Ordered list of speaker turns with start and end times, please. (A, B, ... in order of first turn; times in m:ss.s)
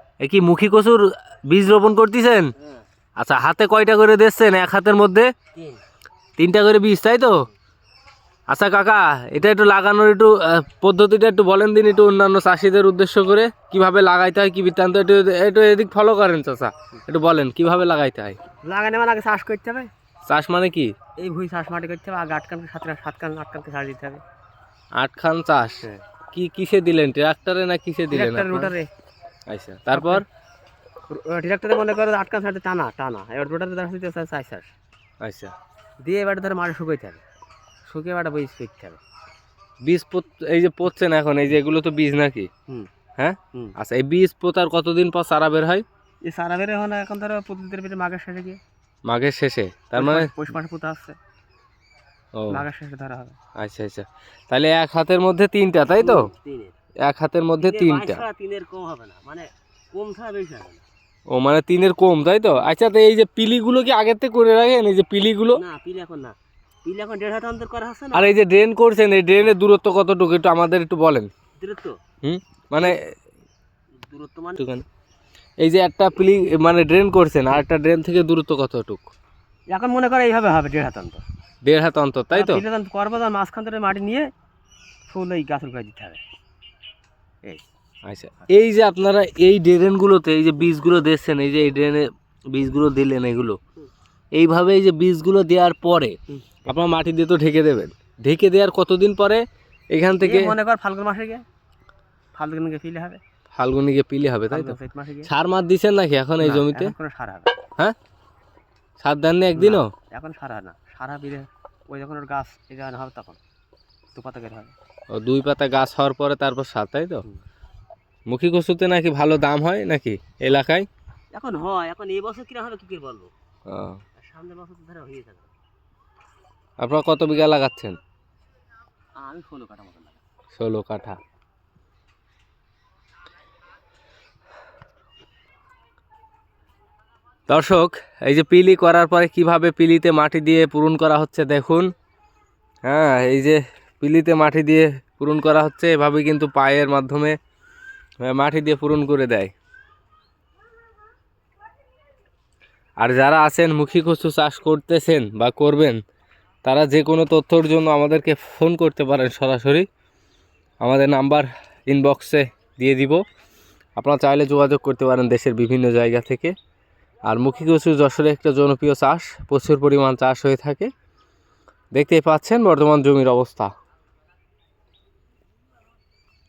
0:00.2-0:02.5 A
0:03.2-0:05.3 A
0:05.6-0:05.8 B
0:06.4-0:07.4 A
0:08.5-0:18.4 A
0:18.6-0:19.9 B
0:20.3-0:20.9 A
0:21.2-0:24.2 B
0:25.0-0:28.7 A
0:28.1-0:28.9 B
0:29.5-0:30.2 A
0:29.9-0:30.2 B
0:31.1-0:34.7 B
0:35.2-0:35.5 A
0:36.0-0:37.2 B
0:37.9-0:39.0 B
0:39.8-0:42.5 A
0:43.2-0:45.8 A
0:46.3-0:48.6 B
0:49.1-0:50.3 A
0:50.0-0:51.2 B
0:52.4-0:52.6 A
0:52.5-0:53.4 B
0:53.6-0:56.3 A
0:55.9-0:56.7 B
0:57.0-0:58.2 A
0:57.6-1:00.8 B
1:01.3-1:05.6 A
1:05.6-1:08.4 B
1:08.1-1:11.3 A
1:11.6-1:12.0 B
1:12.2-1:13.0 A
1:14.1-1:14.6 B
1:14.6-1:14.8 A
1:15.6-1:19.1 A
1:19.7-1:21.2 B
1:21.6-1:22.6 A
1:22.3-1:24.3 B
1:25.1-1:26.2 B
1:28.1-1:33.6 A
1:34.3-1:40.5 A
1:40.2-1:41.4 B
1:42.4-1:43.2 B
1:43.5-1:46.9 A
1:44.5-1:45.3 B
1:46.4-1:47.5 B
1:49.0-1:49.9 A
1:49.6-1:53.4 B
1:54.2-1:54.7 B
1:55.1-1:57.2 A
1:58.3-2:00.9 A
2:01.4-2:03.3 B
2:03.7-2:04.0 A
2:04.2-2:05.5 B
2:06.8-2:08.0 A
2:09.2-2:10.2 B
2:10.6-2:11.2 A
2:17.5-2:21.9 A
2:22.8-2:27.4 A
2:28.2-2:29.5 A
2:33.0-2:36.0 A
2:36.6-2:39.9 A
2:40.8-2:43.2 A
2:44.0-2:46.6 A
2:47.3-2:50.9 A
2:51.9-2:53.7 A